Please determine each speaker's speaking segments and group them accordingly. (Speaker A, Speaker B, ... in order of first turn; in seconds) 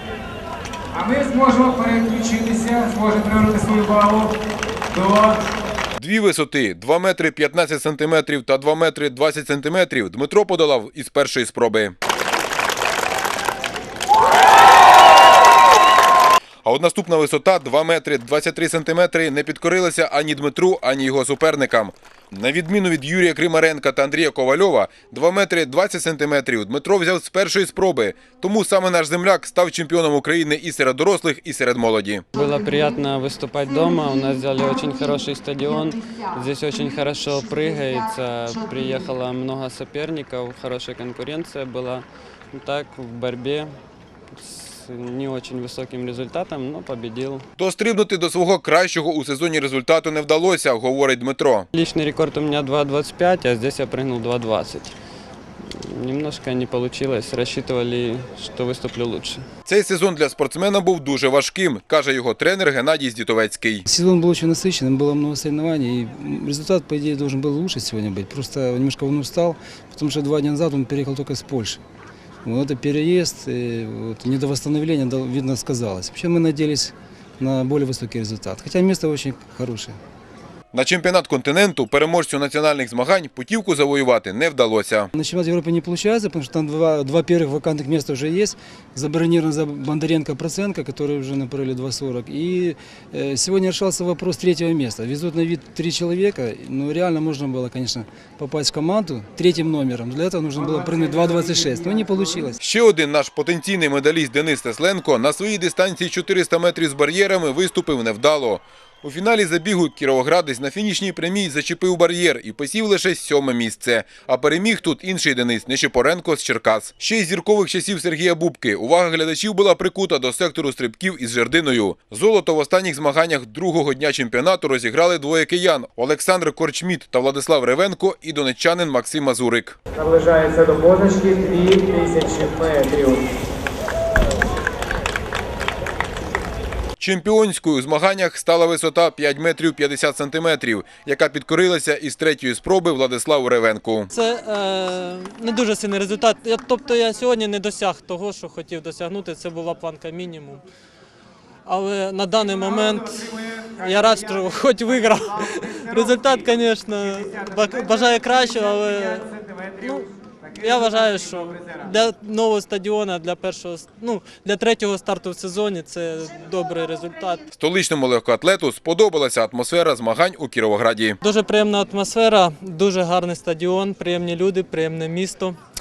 Speaker A: 1.0-4.3, 4.9-5.3, 130.0-133.2
Speaker B: 6.0-11.9, 16.6-32.2, 47.6-51.7, 59.6-63.8, 80.7-85.1, 102.6-129.8, 137.0-144.1, 167.5-171.2
Speaker C: 32.3-43.8, 44.3-47.4, 51.7-54.9, 55.6-59.5
Speaker D: 63.9-71.8, 72.4-80.0, 85.1-102.6
Speaker E: 144.1-150.6, 151.7-160.1, 160.6-167.4, 171.2-175.6